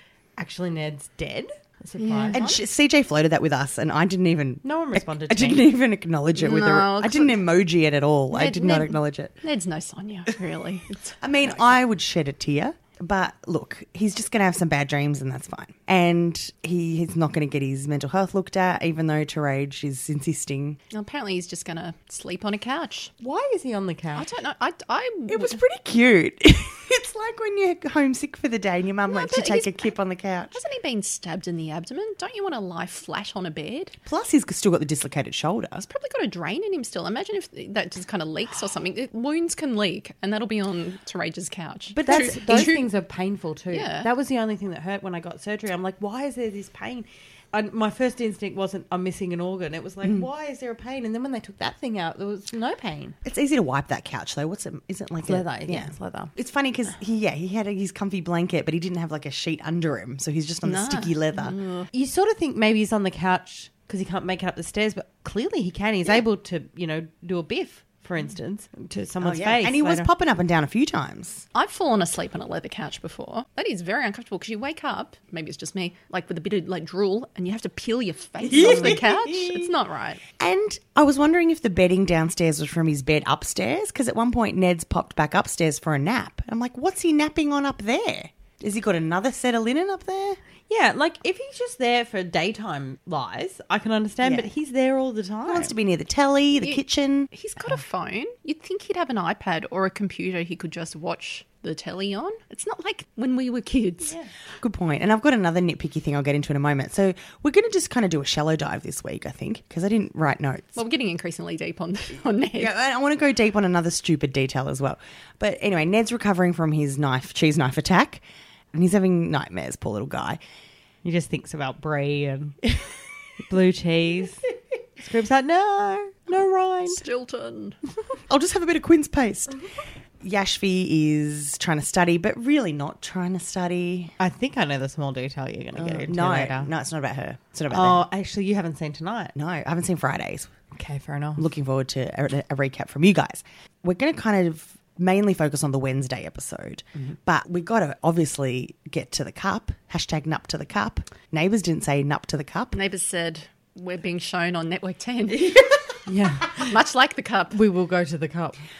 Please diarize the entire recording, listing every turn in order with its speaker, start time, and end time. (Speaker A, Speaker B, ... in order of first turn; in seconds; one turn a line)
Speaker A: 0.4-2.4
Speaker B: 2.0-2.6
Speaker C: 2.3-9.3
Speaker A: 4.6-5.7
Speaker B: 6.3-7.4
Speaker B: 8.3-11.1
Speaker C: 11.2-20.8
Speaker B: 20.9-23.1
Speaker A: 23.2-24.3
Speaker B: 24.1-25.6
Speaker C: 25.3-30.6
Speaker B: 29.1-29.7
Speaker B: 30.5-33.9
Speaker C: 34.0-35.9
Speaker B: 35.8-42.9
Speaker A: 42.0-53.1
Speaker C: 42.1-42.6
Speaker B: 43.7-44.1
Speaker C: 53.2-61.5
Speaker A: 55.2-56.3
Speaker B: 60.6-61.9
Speaker A: 61.9-70.1
Speaker C: 69.2-71.5
Speaker B: 71.5-80.2
Speaker C: 78.5-79.7
Speaker C: 80.4-90.4
Speaker A: 90.7-95.7
Speaker C: 94.2-94.5
Speaker C: 95.5-97.3
Speaker B: 96.6-104.2
Speaker C: 104.6-110.8
Speaker B: 110.8-112.7
Speaker C: 112.5-118.2
Speaker C: 118.7-120.4
Speaker A: 121.0-122.6
Speaker A: 123.4-124.4
Speaker A: 125.0-127.0
Speaker B: 126.9-127.8
Speaker C: 128.3-129.6
Speaker C: 130.2-134.1
Speaker A: 134.2-136.7
Speaker C: 135.8-138.0
Speaker A: 137.7-139.3
Speaker C: 139.3-140.5
Speaker A: 140.7-141.4
Speaker C: 141.4-152.8
Speaker B: 152.7-155.8
Speaker A: 156.1-156.7
Speaker B: 156.5-157.6
Speaker A: 157.5-158.6